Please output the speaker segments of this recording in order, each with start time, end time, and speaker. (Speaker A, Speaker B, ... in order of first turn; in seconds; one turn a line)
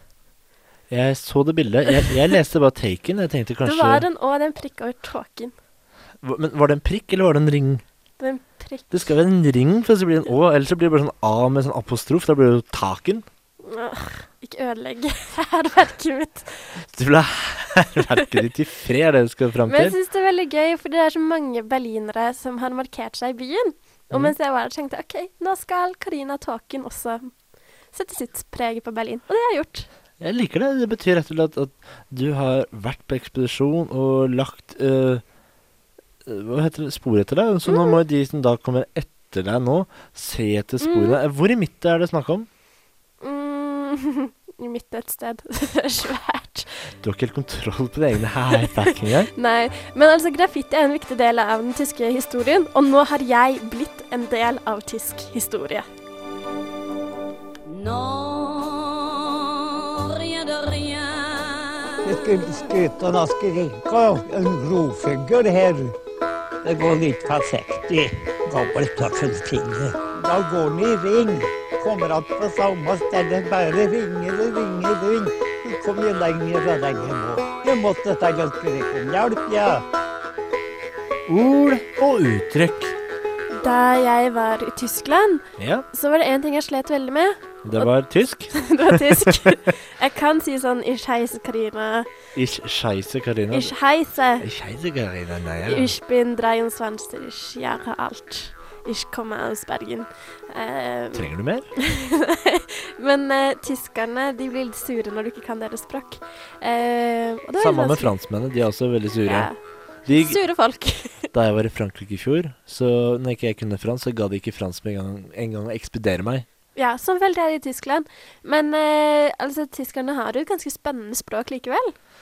Speaker A: 0.9-4.1
Speaker B: 3.6-5.5
Speaker A: 6.2-7.8
Speaker B: 8.2-9.1
Speaker A: 8.9-13.2
Speaker B: 13.6-16.8
Speaker A: 16.9-20.0
Speaker B: 19.6-27.2
Speaker B: 27.9-29.9
Speaker A: 30.2-35.2
Speaker A: 36.2-42.5
Speaker B: 37.6-38.0
Speaker B: 40.8-41.2
Speaker B: 43.2-46.8
Speaker A: 47.0-49.3
Speaker B: 48.6-55.9
Speaker C: 62.0-65.9
Speaker C: 66.6-79.8
Speaker A: 81.3-82.9
Speaker B: 83.5-87.9
Speaker A: 85.6-85.8
Speaker A: 87.6-89.5
Speaker B: 88.5-92.1
Speaker A: 92.3-93.7
Speaker B: 93.5-94.5
Speaker A: 94.4-95.9
Speaker B: 95.7-108.2
Speaker A: 101.1-101.7
Speaker A: 107.6-109.5
Speaker B: 109.2-111.3
Speaker A: 110.0-110.4
Speaker A: 111.3-116.4
Speaker B: 116.7-121.9